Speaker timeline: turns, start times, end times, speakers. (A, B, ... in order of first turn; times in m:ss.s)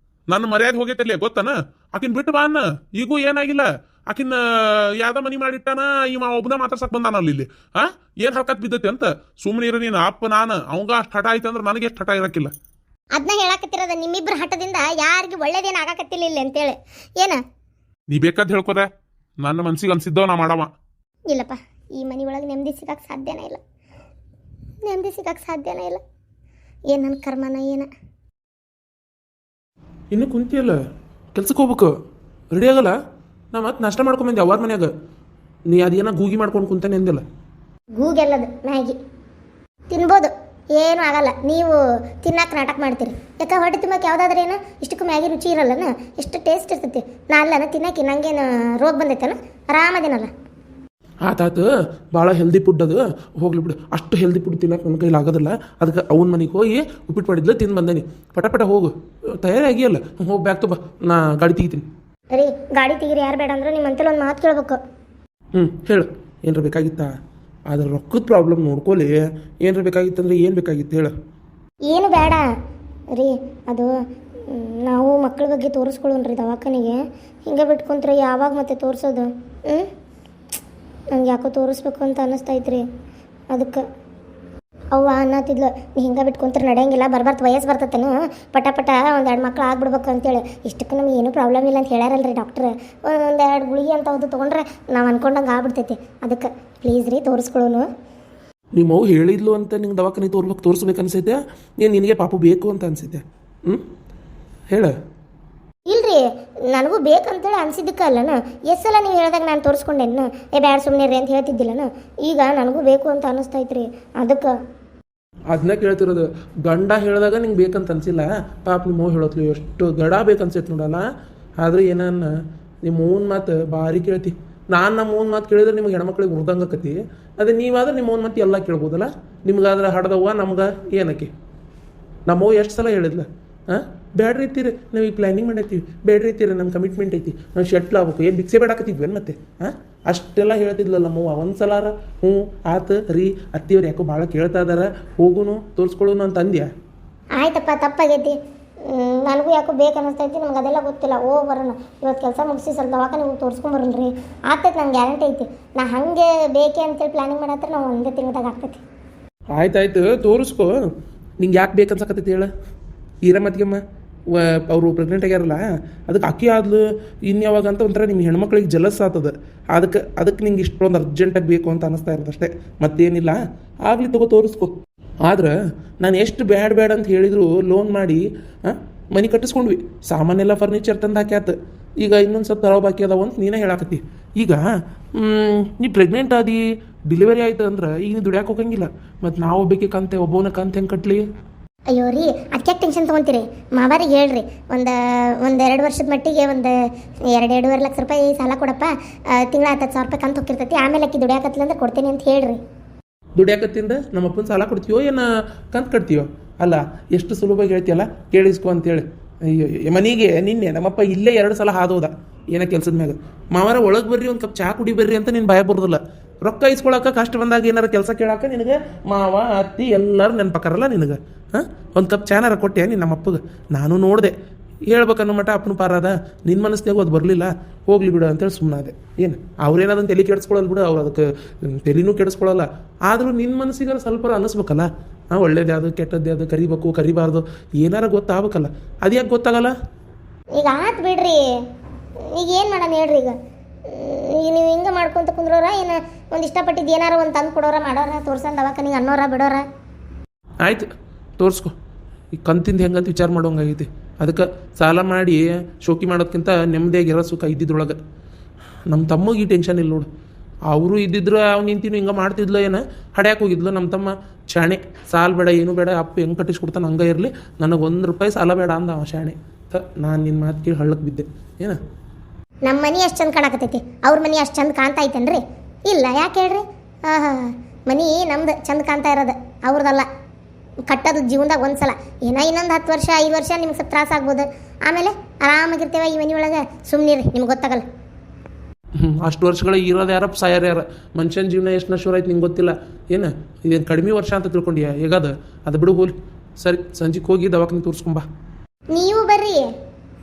0:00.3-0:12.5 A
0:13.2-0:17.4 B
0:18.1-0:18.9 A
0:19.4-0:20.7 A
0:21.3-0:23.6 B
0:24.8-0:26.0 B
0:26.9-0:27.9 B
0:30.1-0:30.7 A
0:30.2-0:30.8 C
0:31.4-0:31.9 C
0:31.6-0:31.9 A
0:32.5-0:32.9 C
0:32.6-0:32.9 A
0:33.6-0:34.9 A
0:33.6-0:34.9 C
0:35.7-0:37.2 C
0:35.7-0:37.2 A
0:38.0-0:39.0 B
0:39.9-0:50.3 B
0:51.3-0:51.6 C
0:51.3-0:51.6 A
0:52.2-0:58.9 C
0:52.2-0:52.9 A
0:53.4-0:58.9 A
0:59.4-1:01.8 C
1:02.3-1:04.8 B
1:05.6-1:07.1 C
1:05.6-1:06.0 A
1:07.7-1:09.1 C
1:09.6-1:11.1 C
1:11.9-1:12.4 B
1:13.2-1:13.9 B
1:14.5-1:17.0 B
1:17.5-1:19.9 B
1:21.1-1:22.8 B
1:23.5-1:23.8 B
1:24.9-1:37.9 B
1:38.8-1:41.3 A
1:38.8-1:43.2 C
1:41.8-1:43.2 A
1:45.9-1:46.2 B
1:46.7-1:54.5 B
1:55.5-2:01.0 C
2:01.6-2:02.3 C
2:02.8-2:11.3 C
2:12.3-2:26.7 C
2:27.4-2:28.3 B
2:28.8-2:38.8 B
2:39.6-2:40.7 C
2:41.4-2:42.5 C
2:43.2-2:43.8 C
2:44.3-2:54.7 C
2:55.3-2:58.2 C
2:59.2-3:04.6 C
3:05.2-3:06.6 C
3:07.1-3:11.2 C
3:11.9-3:16.8 B
3:17.3-3:22.6 B
3:23.4-3:44.3 C
3:44.9-3:59.7 C
4:00.6-4:01.4 B
4:02.3-4:03.3 B
4:03.9-4:09.6 B
4:11.4-4:11.7 C
4:12.4-4:18.0 C
4:18.9-4:20.1 C
4:20.7-4:31.8 C
4:32.7-4:40.0 B
4:40.9-4:47.8 B
4:49.0-4:58.2 C
4:58.9-4:59.6 B